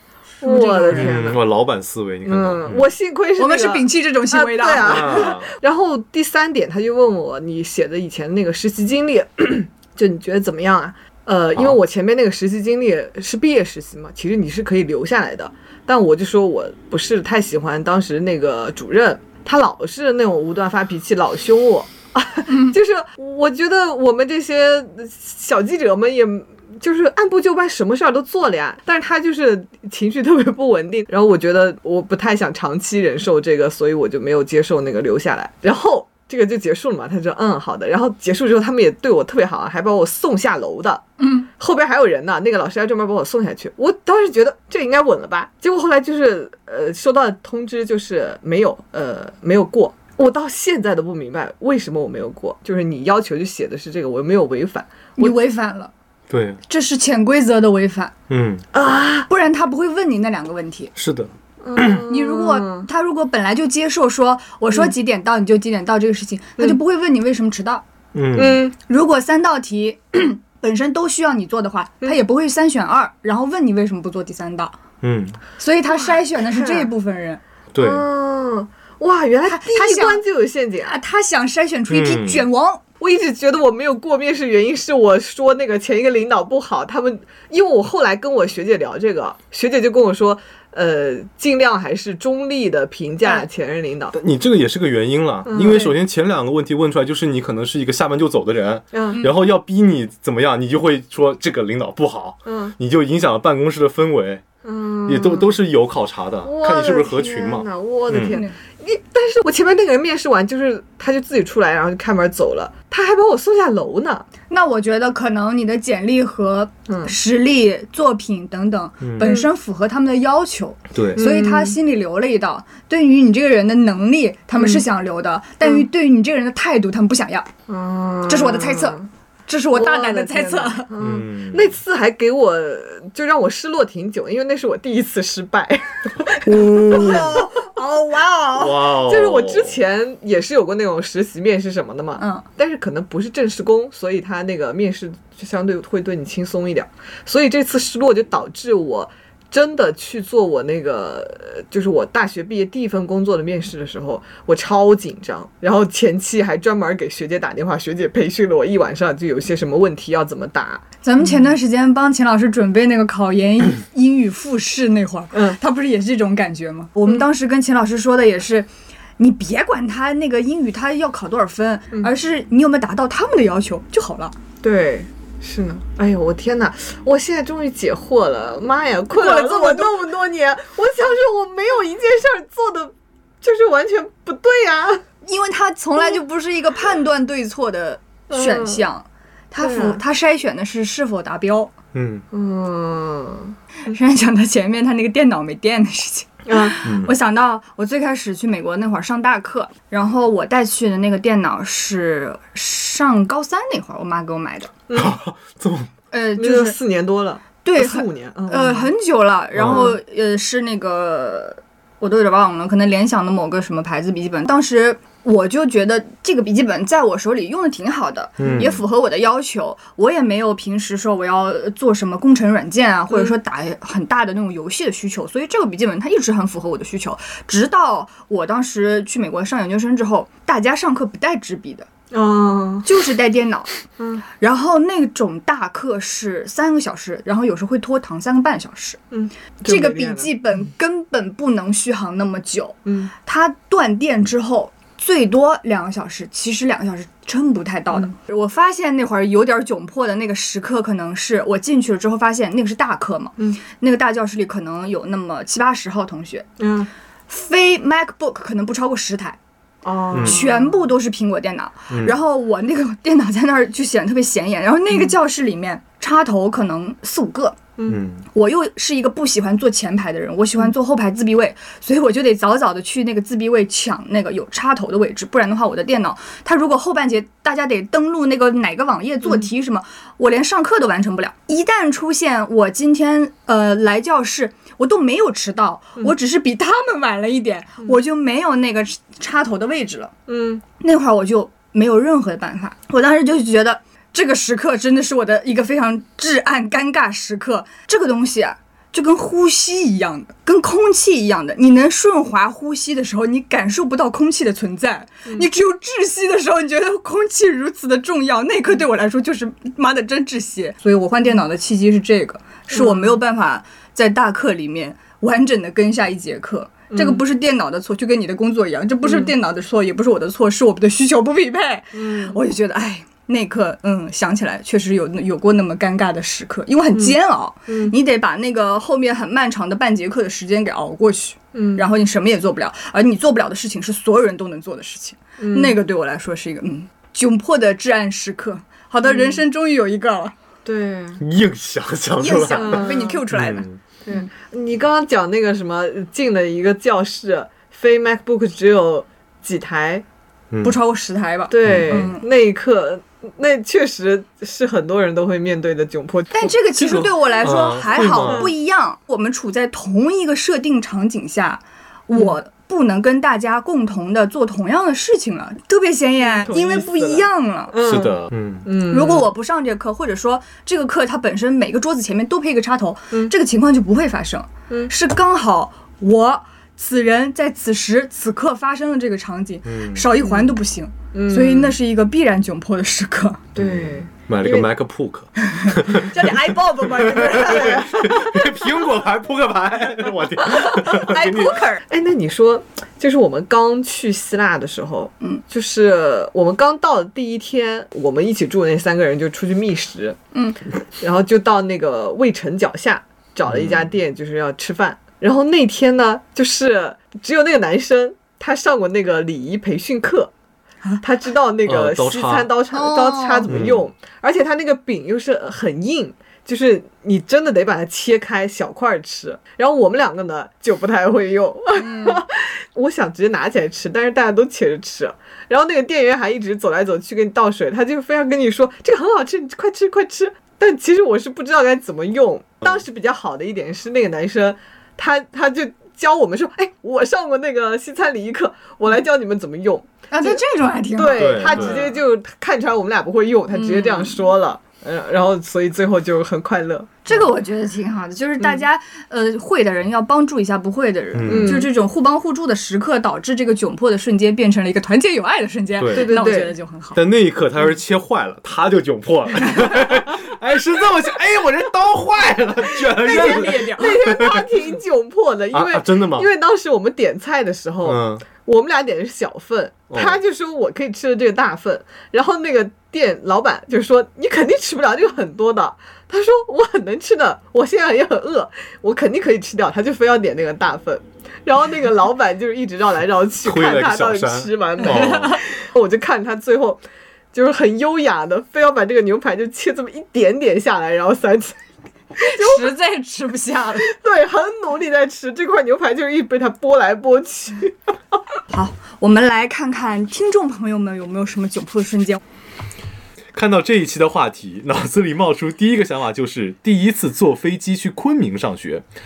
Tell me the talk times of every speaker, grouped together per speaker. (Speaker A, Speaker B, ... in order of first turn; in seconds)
Speaker A: 0.4-1.2, 3.4-5.3, 22.5-22.8, 41.2-41.5, 55.2-55.9, 56.7-58.1, 59.3-60.9, 62.1-67.8, 68.9-74.8, 75.6-77.4, 79.5-80.2, 80.9-82.8, 108.3-108.5, 114.5-127.5, 128.3-130.9, 136.4-138.8, 142.2-142.4, 161.0-174.3, 179.1-180.1, 185.3-191.7, 193.9-204.7, 206.1-206.8, 207.6-231.9, 232.8-233.7, 234.4-239.0, 239.7-256.5, 257.3-259.4, 260.2-267.6, 268.3-290.1, 290.8-340.3, 342.2-344.2, 350.6-352.2, 356.3-367.8, 368.9-383.4, 385.6-387.9, 390.4-391.8, 400.3-400.6, 412.7-413.5, 421.8-422.2, 440.1-441.9, 443.5-444.1, 447.1-457.0, 462.9-464.0, 484.9-485.4, 492.2-493.9, 498.5-502.2
Speaker B: 0.4-1.4, 2.2-55.4, 58.7-59.3, 61.6-62.9, 68.3-68.7, 76.0-76.9, 77.8-81.0, 83.0-94.2, 95.5-96.0, 98.9-99.2, 102.5-102.8, 104.6-105.6, 106.4-114.3, 116.9-117.1, 119.2-119.5, 121.2-121.8, 124.6-124.8, 127.7-129.1, 129.7-137.7, 138.9-160.8, 165.3-165.6, 174.6-185.0, 188.3-188.8, 189.6-190.0, 192.3-193.6, 196.5-196.8, 204.9-205.2, 206.4-208.9, 232.1-232.9, 234.0-234.2, 239.1-240.3, 242.8-243.1, 256.6-256.9, 259.8-260.8, 290.3-290.6, 312.7-313.2, 316.9-317.2, 319.0-319.3, 321.9-322.4, 326.9-327.9, 331.5-331.9, 335.4-335.8, 339.0-339.4, 340.6-341.2, 342.5-343.2, 344.1-350.1, 351.5-356.6, 357.9-358.5, 366.3-369.3, 380.2-380.5, 381.1-381.8, 383.6-384.7, 387.5-388.4, 391.9-400.2, 401.0-410.3, 411.0-440.4, 441.0-447.1, 451.3-451.7, 455.9-456.5, 463.0-491.6, 492.2-492.7, 493.8-497.7
Speaker C: 0.9-2.9, 4.8-5.5, 56.3-56.6, 58.3-58.6, 61.0-62.0, 68.1-68.6, 75.0-75.4, 77.7-78.0, 81.9-82.5, 94.1-104.4, 105.0-108.4, 119.0-119.3, 120.9-121.2, 131.0-131.8, 138.6-139.8, 191.9-192.2, 196.8-197.2, 204.9-205.9, 209.6-209.9, 218.4-218.8, 260.1-260.4, 261.9-262.2, 267.9-268.3, 341.2-343.8, 350.5-350.8, 351.6-352.1, 356.8-358.5, 367.8-368.7, 379.6-380.1, 383.6-386.3, 387.0-391.6, 403.5-403.9, 411.7-412.5, 413.5-413.9, 441.1-441.9, 451.1-451.6, 455.8-456.4, 456.9-464.5, 465.5-466.3, 467.9-468.2, 469.9-470.2, 483.4-485.4, 503.3-508.9